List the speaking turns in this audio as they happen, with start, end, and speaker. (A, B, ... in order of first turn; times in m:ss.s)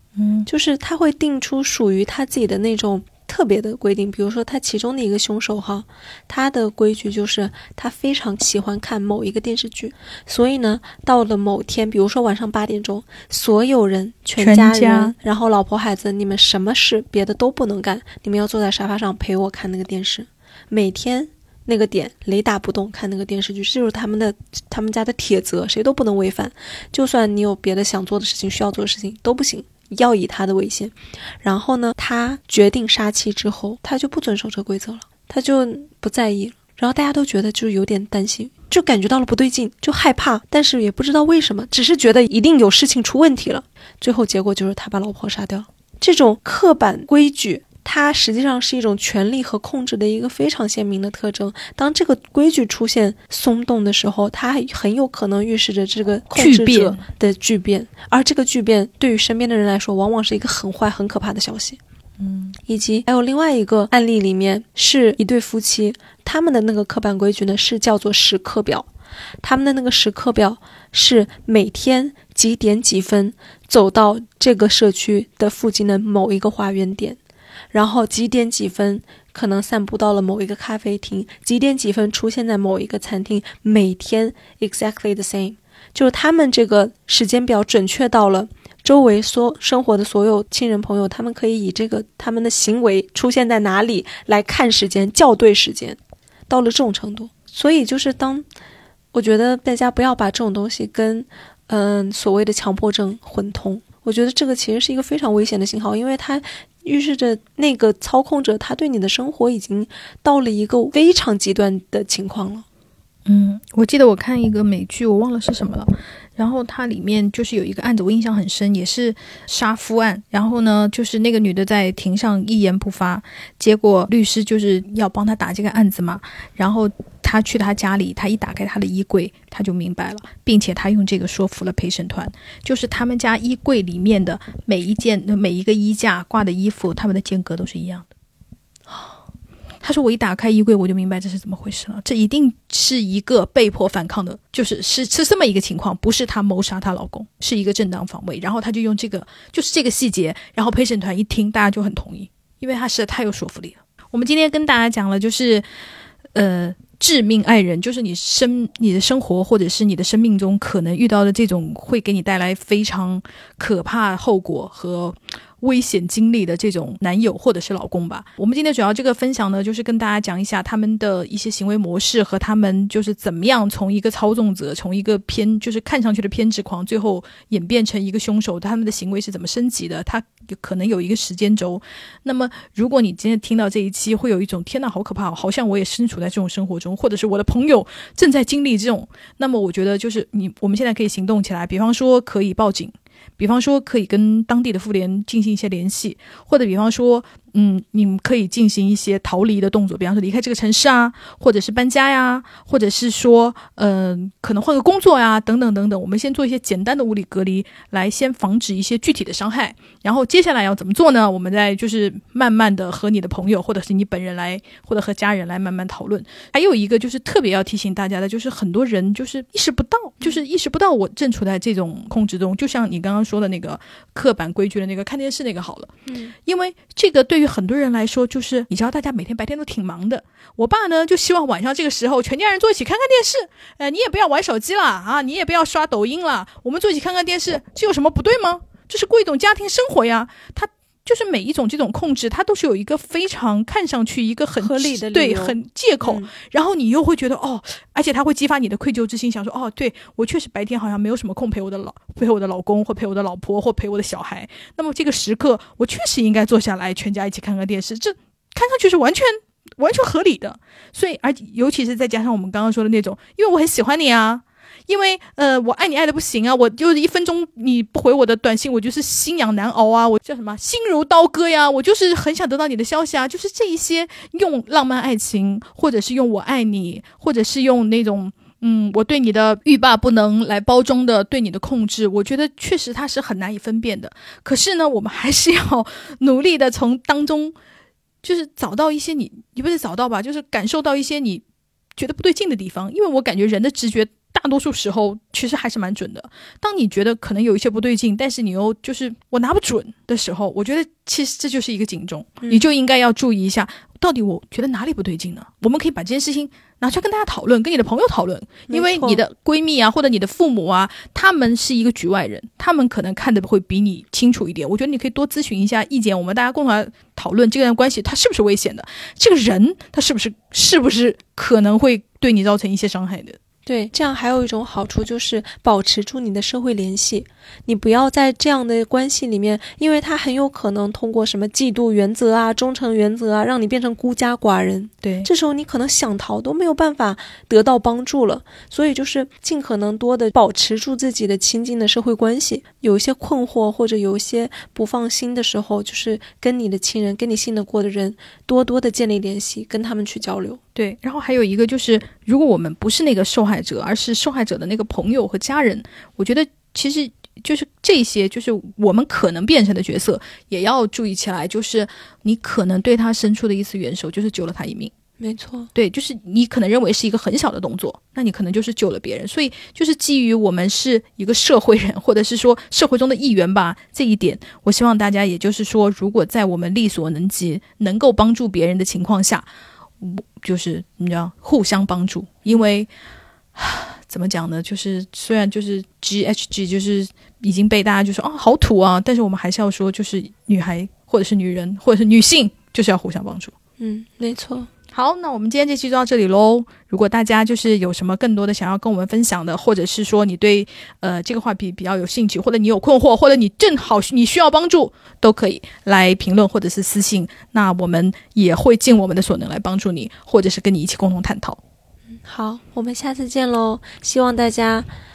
0:00.2-0:00.5 A
0:00.5-1:01.8 B
0:14.4-0:15.1 A
0:56.4-0:57.0 A
1:02.2-1:02.6 A
1:02.7-1:08.9 B
1:09.4-1:17.2 B
1:17.7-1:38.4 B
1:39.1-1:52.6 B
1:53.3-2:18.1 A
2:18.9-2:19.2 B
2:19.8-2:35.6 A
2:36.3-3:45.9 A
3:46.1-3:46.4 B
3:46.5-4:47.5 A
4:04.6-4:06.3 B
4:48.2-4:51.4 A
4:52.0-5:23.4 A
5:08.7-5:09.2 B
5:23.7-5:50.6 B
5:35.0-5:35.3 A
5:50.8-6:04.9 A
6:05.2-6:05.7 B
6:05.8-6:19.5 A
6:20.0-6:22.9 A
6:23.6-6:33.5 A
6:33.8-6:34.7 B
6:34.9-6:51.6 A
6:52.2-6:54.9 B